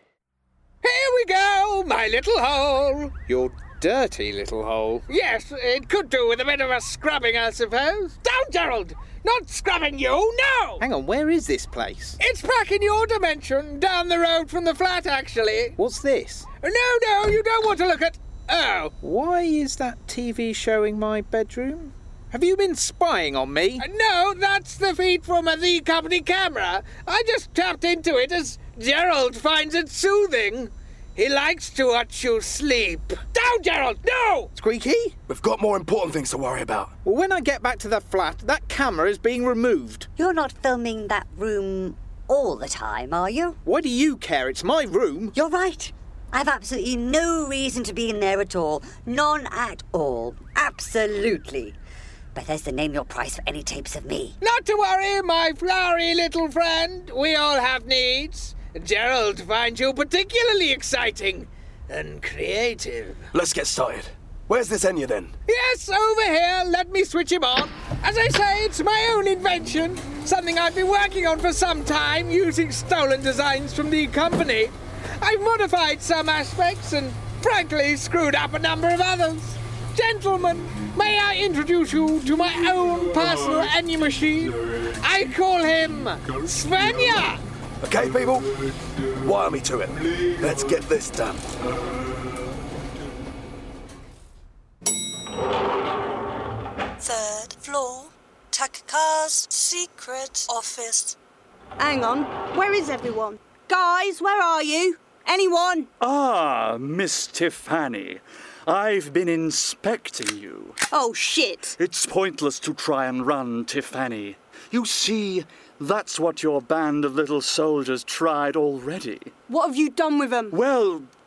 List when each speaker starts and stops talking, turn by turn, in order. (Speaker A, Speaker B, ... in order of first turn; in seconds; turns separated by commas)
Speaker A: 0.8-3.2, Speaker B: 3.2-5.1, Speaker A: 5.1-10.8, Speaker B: 10.8-12.2, Speaker A: 12.2-15.8, Speaker B: 15.8-16.5, Speaker A: 16.5-18.9, Speaker B: 19.0-23.9, Speaker A: 23.8-34.5, Speaker B: 34.5-35.1, Speaker C: 35.3-36.9, Speaker B: 37.0-40.1, Speaker D: 40.2-43.6, Speaker B: 43.6-45.4, Speaker D: 45.4-51.8, Speaker D: 52.4-54.4, Speaker A: 54.4-63.3, Speaker C: 63.3-65.3, Speaker A: 65.5-87.4, Speaker C: 87.8-88.6, Speaker C: 89.2-91.5, Speaker E: 97.0-101.2, Speaker F: 101.8-105.9, Speaker G: 106.0-110.8, Speaker F: 110.9-111.8, Speaker G: 111.8-119.3, Speaker F: 119.5-120.6, Speaker G: 120.5-121.1